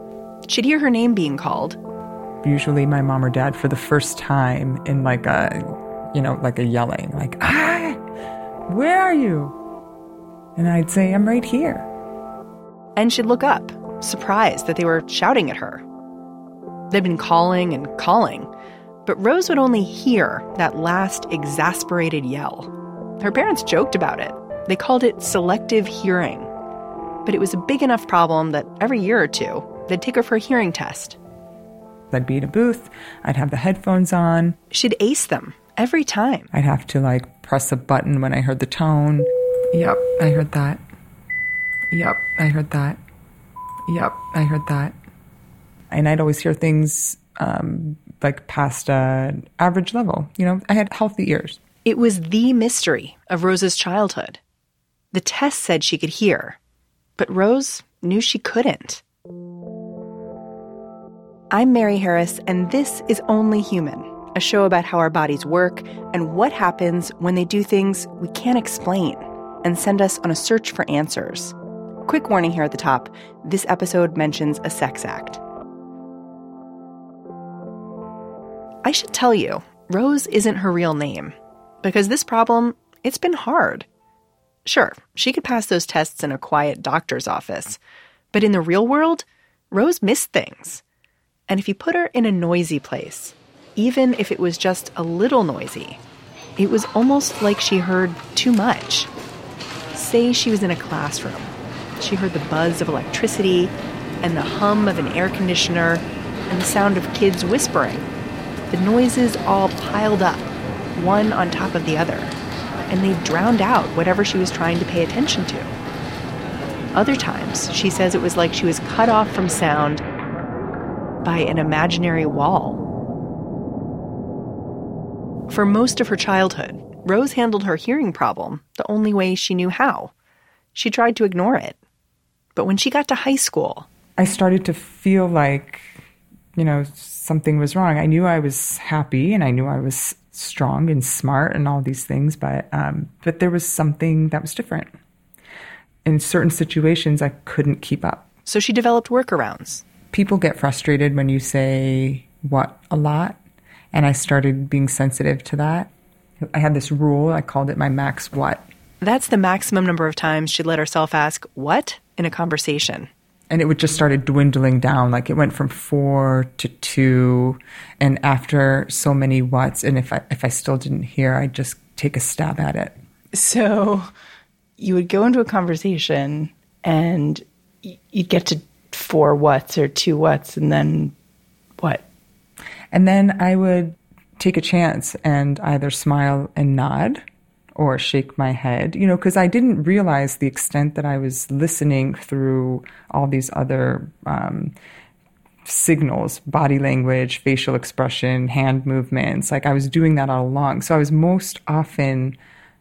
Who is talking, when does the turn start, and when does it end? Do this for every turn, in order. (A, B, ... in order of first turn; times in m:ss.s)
0:00.5-0:01.8 A
0:02.4-0:08.0 B
0:08.7-0:09.6 B
0:10.6-0:11.9 B
0:13.0-0:15.8 A
0:16.9-0:18.5 A
0:19.0-0:26.5 A
0:27.2-0:31.2 A
0:32.1-0:34.6 B
0:34.7-0:36.5 A
0:36.5-0:40.8 B
0:41.9-0:43.0 B
0:43.9-0:45.0 B
0:45.9-0:51.6 B
0:51.8-0:54.4 A
0:55.1-0:56.6 A
0:57.2-0:59.0 A
1:01.5-1:11.6 A
1:12.1-1:15.4 A
1:18.8-1:23.9 A
1:24.7-1:27.8 A
1:28.3-1:30.8 A
1:31.5-1:36.0 A
1:36.6-1:39.1 A
1:39.9-1:48.1 A
1:48.7-1:52.4 A
1:52.9-1:55.7 A
1:57.0-2:00.0 A
2:01.2-2:02.8 A
2:05.5-2:10.1 A
2:10.7-2:11.8 A
2:12.5-2:13.9 A
2:14.2-2:16.0 B
2:16.6-2:24.9 B
2:26.0-2:28.2 B
2:28.4-2:29.8 A
2:30.1-2:33.4 B
2:33.9-2:35.9 B
2:36.5-2:38.7 B
2:39.0-2:43.1 A
2:43.5-2:53.0 B
2:53.3-2:54.1 C
2:54.8-3:01.1 C
3:01.8-3:02.0 C
3:02.9-3:07.2 B
3:07.8-3:14.8 B
3:15.6-3:22.4 B